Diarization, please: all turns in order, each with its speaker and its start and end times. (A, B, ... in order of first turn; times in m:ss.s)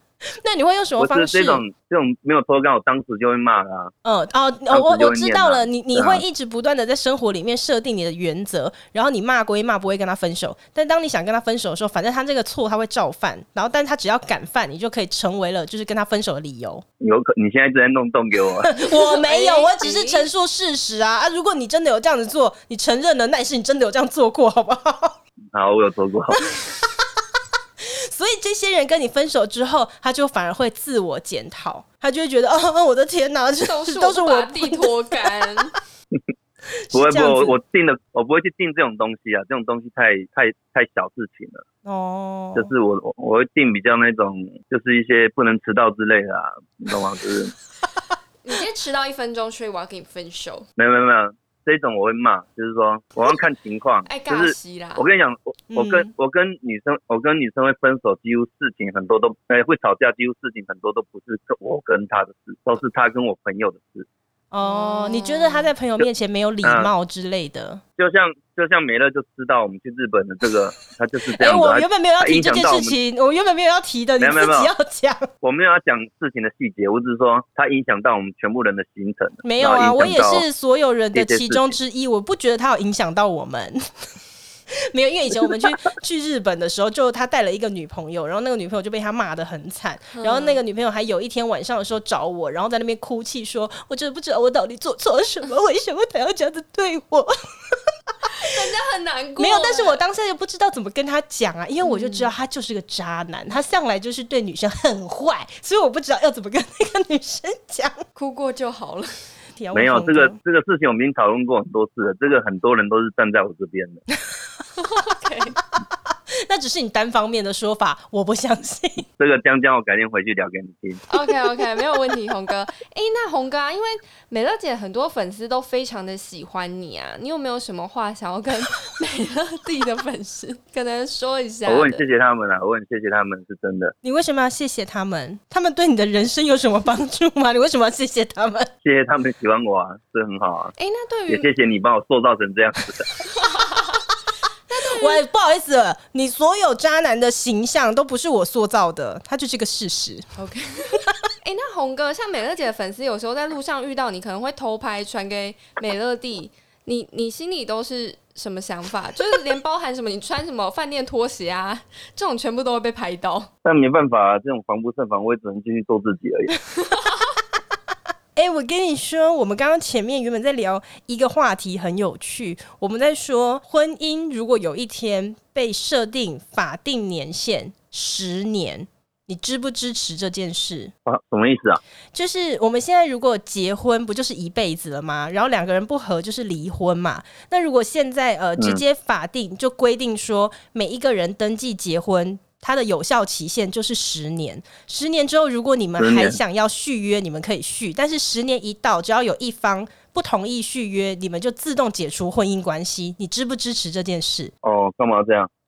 0:00.4-0:01.6 A
0:01.0-0:03.9 B
0:04.0-0:16.8 A
0:04.7-0:06.2 B
0:17.0-0:18.8 B
0:18.6-0:25.2 A
0:18.8-0:20.3 C
0:25.5-0:26.4 B
0:27.8-0:35.3 A
0:33.6-0:35.7 C
0:36.9-0:37.6 A
0:36.9-0:41.6 B
0:41.8-0:42.7 A
0:42.6-0:47.5 B
0:48.4-0:50.7 C
0:50.8-1:04.1 B
0:54.0-0:55.0 C
0:55.7-0:56.1 A
1:04.5-1:07.8 A
1:04.6-1:05.7 C
1:06.6-1:06.9 B
1:08.0-1:13.0 B
1:11.4-1:15.3 A
1:14.2-1:14.7 B
1:15.4-1:20.5 B
1:19.4-1:23.8 A
1:21.1-1:21.8 B
1:24.9-1:38.5 A
1:30.1-1:30.6 C
1:38.4-1:40.0 C
1:39.4-1:48.0 A
1:41.8-1:42.3 C
1:48.2-1:49.1 C
1:49.6-1:50.4 A
1:49.7-1:54.0 B
1:54.8-1:55.6 C
1:56.4-1:59.1 A
1:59.2-2:01.0 B
2:01.1-2:12.0 C
2:11.7-2:14.0 B
2:14.0-2:18.7 A
2:18.8-2:20.7 B
2:20.8-2:21.5 C
2:21.3-2:23.0 B
2:23.4-2:24.0 C
2:24.7-2:25.2 C
2:24.9-2:30.3 A
2:30.4-2:43.5 C
2:43.6-2:46.5 B
2:46.9-2:47.1 C
2:48.4-3:00.9 A
3:01.0-3:01.8 B
3:02.1-3:24.5 A
3:16.0-3:16.4 B
3:24.6-3:25.5 B